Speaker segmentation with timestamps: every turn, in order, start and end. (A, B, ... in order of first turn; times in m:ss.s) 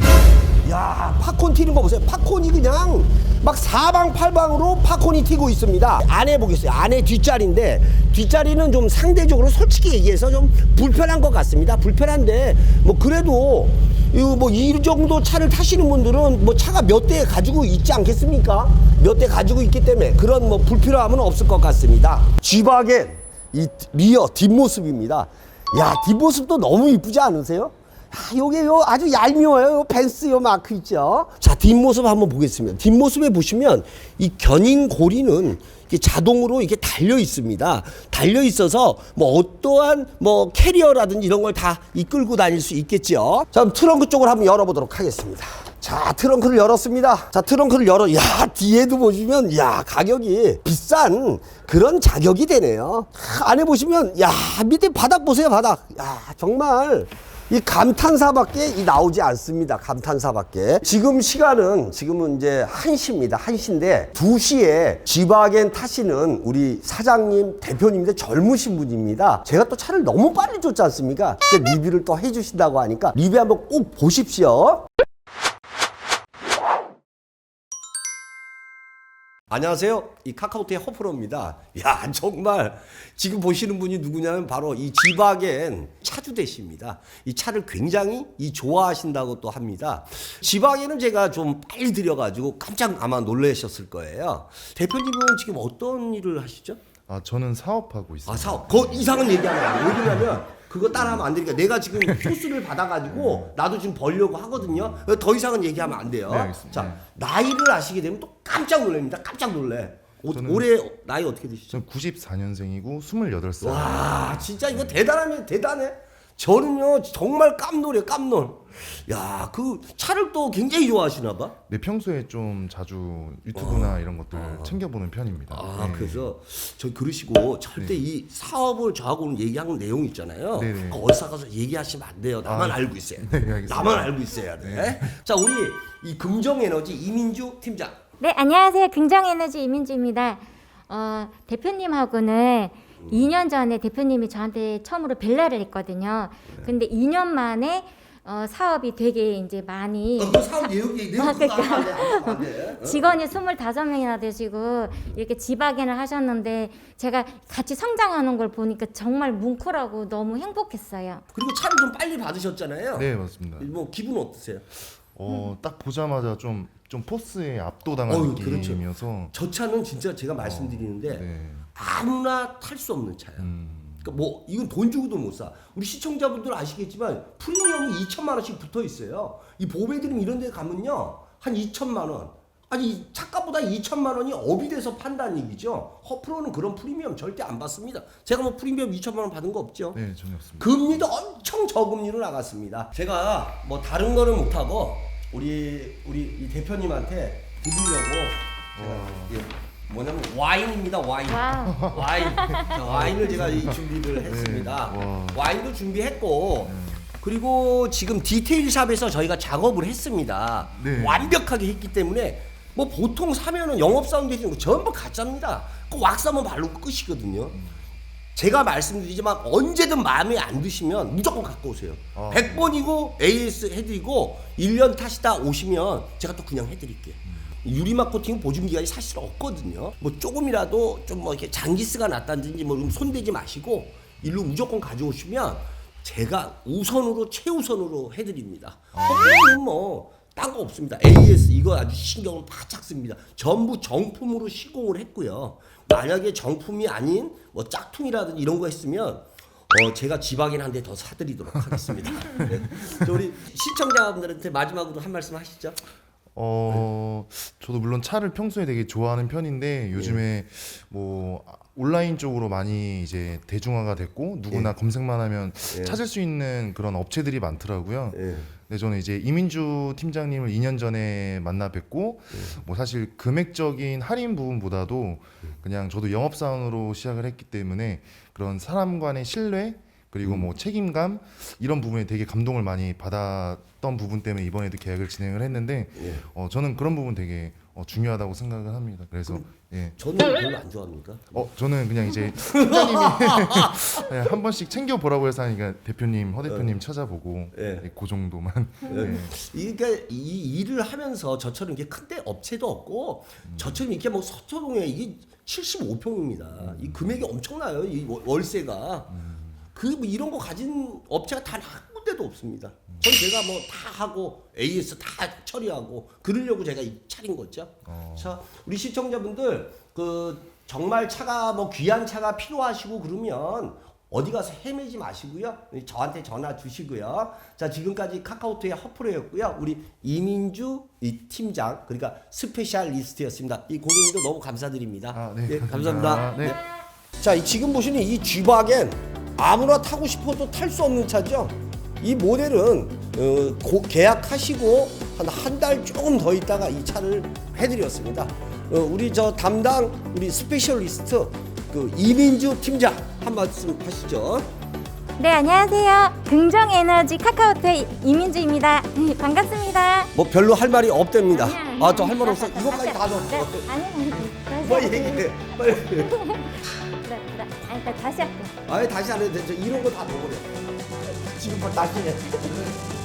0:00.6-1:14.8 A
1:19.5-1:36.8 A
1:37.1-1:39.1 B
1:38.3-1:51.8 A
1:42.0-1:42.4 B
1:43.1-1:43.6 B
1:44.6-1:45.1 B
1:46.3-1:47.0 B
1:50.3-1:50.7 B
1:51.7-1:55.0 B
1:53.6-2:01.6 A
2:01.7-2:06.3 B
2:03.5-2:04.8 A
2:05.5-2:18.0 A
2:07.8-2:08.0 B
2:10.5-2:11.0 B
2:12.4-2:15.2 B
2:18.2-2:41.2 C
2:23.0-2:23.3 A
2:30.2-2:33.2 A
2:41.3-2:44.7 A
2:43.0-2:43.7 B
2:45.2-2:49.3 B
2:48.1-3:10.0 A
2:50.4-2:51.7 B
2:53.4-2:54.2 B
3:09.9-3:11.0 B
3:10.6-3:37.6 A
3:18.8-3:19.4 B
3:21.3-3:22.8 C
3:21.7-3:25.4 B
3:26.6-3:27.1 B
3:30.8-3:31.4 B
3:38.4-4:15.8 A
3:42.2-3:42.8 B
3:59.0-3:59.6 B
4:16.4-4:50.0 B
4:19.9-4:20.2 A
4:25.7-4:26.0 A
4:28.1-4:28.5 A
4:46.0-4:46.2 A
4:50.0-4:51.5 A
4:51.4-4:59.4 B
4:52.5-4:54.1 A
4:56.5-4:56.7 A
4:57.5-4:57.9 A
4:58.9-5:09.2 A
5:03.5-5:03.8 B
5:06.6-5:07.2 B
5:09.1-5:09.6 B
5:09.7-5:36.6 A
5:17.9-5:18.4 B
5:35.1-5:36.6 B
5:37.2-5:54.5 A
5:55.2-6:00.1 C
6:00.2-6:03.7 A
6:01.3-6:08.6 C
6:04.6-6:06.2 A
6:08.7-6:10.6 A
6:11.2-6:12.8 A